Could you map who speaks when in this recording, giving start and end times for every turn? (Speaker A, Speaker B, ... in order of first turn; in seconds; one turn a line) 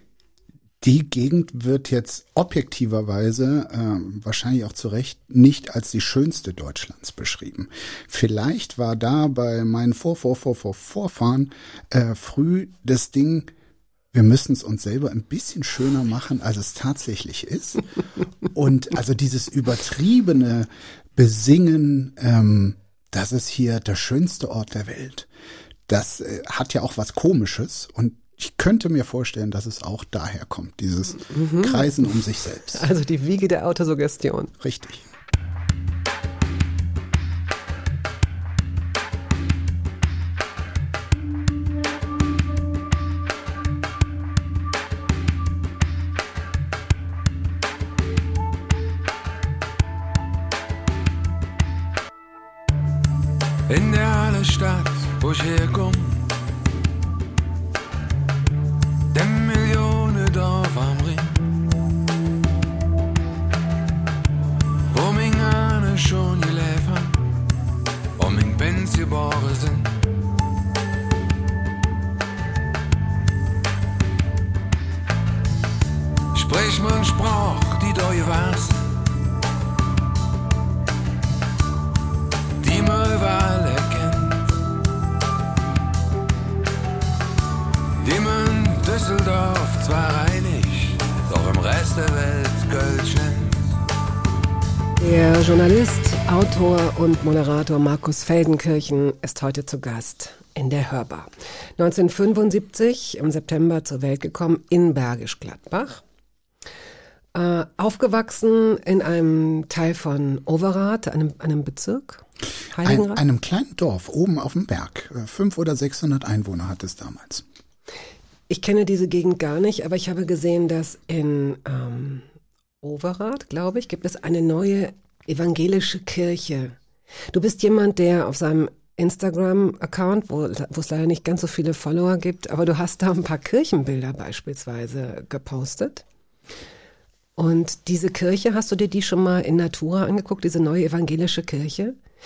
Speaker A: 0.8-13.5
Speaker A: 14.1-17.9
Speaker A: 18.5-25.3
Speaker A: 25.9-32.9
Speaker B: 31.3-31.9
Speaker B: 32.7-34.5
Speaker A: 34.6-35.0
Speaker C: 53.7-56.3
Speaker C: 59.1-61.3
Speaker C: 64.9-67.2
Speaker C: 68.2-69.9
Speaker C: 76.3-78.9
Speaker C: 82.6-84.4
Speaker C: 88.0-93.6
Speaker B: 95.0-106.0
Speaker B: 107.3-113.2
Speaker A: 112.8-117.4
Speaker B: 118.5-122.2
Speaker B: 122.8-126.8
Speaker B: 127.3-136.0
Speaker B: 137.4-141.9